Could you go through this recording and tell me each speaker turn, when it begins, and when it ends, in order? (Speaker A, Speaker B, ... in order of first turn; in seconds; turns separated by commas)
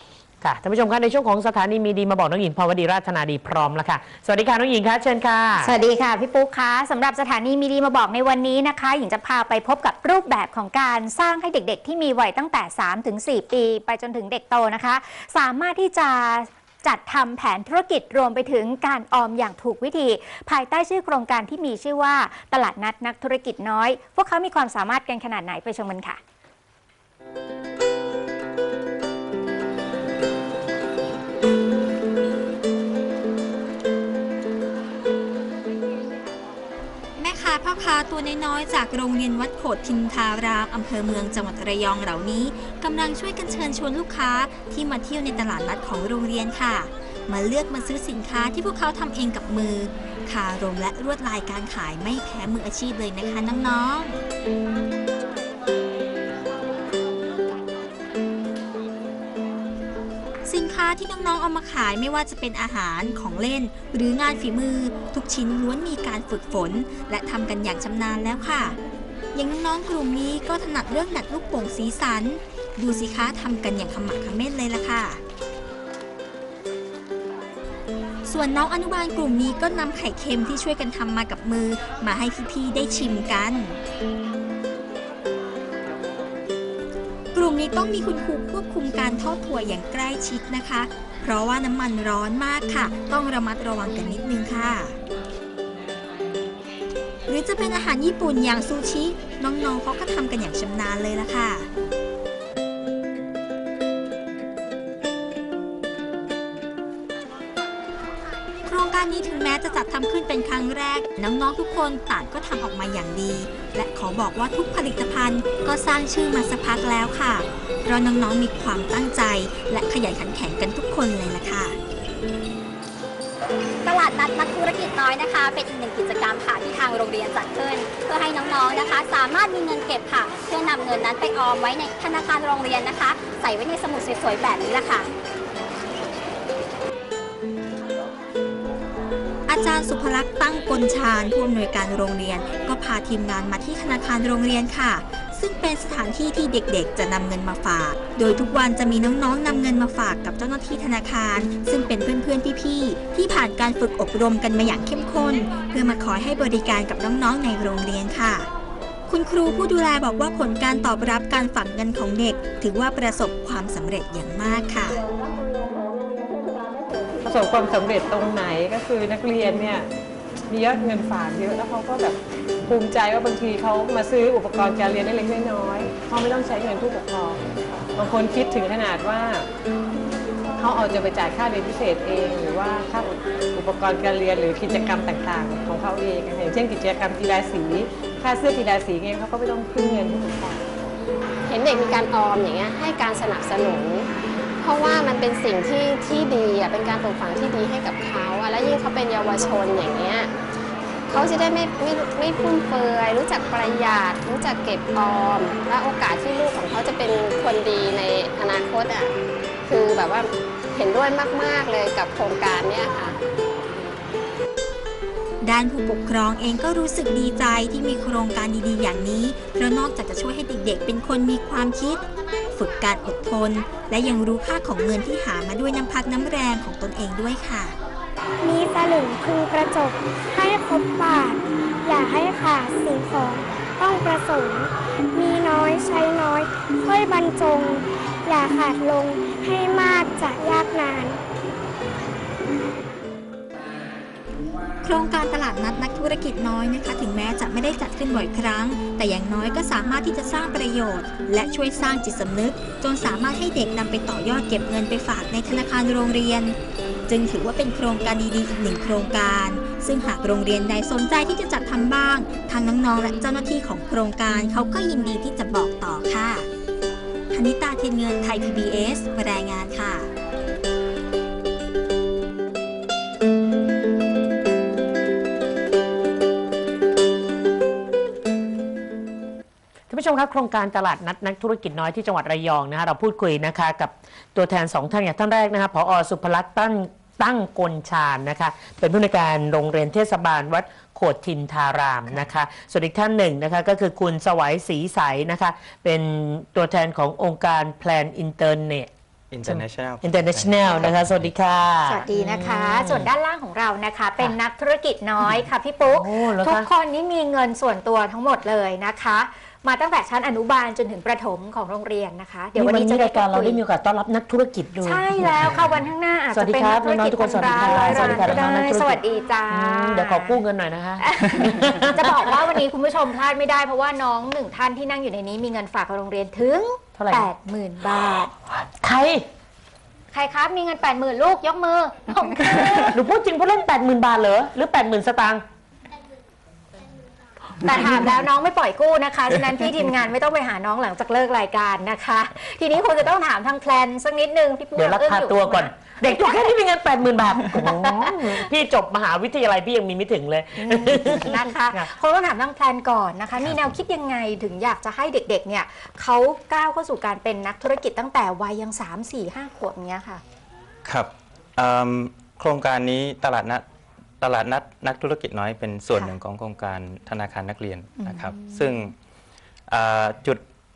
Speaker A: 0.4-5.7, Speaker B: 5.6-26.2, Speaker C: 37.2-54.2, Speaker C: 60.5-68.8, Speaker C: 69.3-75.2, Speaker C: 78.3-83.8, Speaker C: 87.3-95.0, Speaker C: 97.3-101.7, Speaker C: 108.7-121.8, Speaker D: 123.9-135.1, Speaker C: 139.5-158.5, Speaker C: 159.1-165.0, Speaker E: 167.2-169.9, Speaker E: 170.5-177.4, Speaker E: 177.9-179.5, Speaker E: 180.6-190.7, Speaker F: 191.5-194.1, Speaker F: 194.6-200.3, Speaker F: 201.1-209.1, Speaker F: 209.7-213.2, Speaker C: 215.4-227.8, Speaker G: 228.4-241.2, Speaker C: 244.8-256.6, Speaker C: 257.1-266.5, Speaker C: 267.3-270.1, Speaker A: 279.9-298.9, Speaker H: 299.3-301.3, Speaker A: 299.4-303.1, Speaker B: 301.9-313.6, Speaker A: 305.2-306.7, Speaker A: 312.6-315.6, Speaker B: 314.8-320.4, Speaker A: 316.3-322.1, Speaker B: 321.0-328.3, Speaker A: 327.0-327.3, Speaker A: 328.6-329.2, Speaker B: 330.1-332.9, Speaker A: 332.9-335.4, Speaker B: 337.6-346.5, Speaker A: 344.8-351.9, Speaker B: 347.6-348.5, Speaker B: 350.6-360.2, Speaker H: 360.9-363.6, Speaker H: 364.2-368.9, Speaker B: 368.0-368.7, Speaker H: 369.7-370.4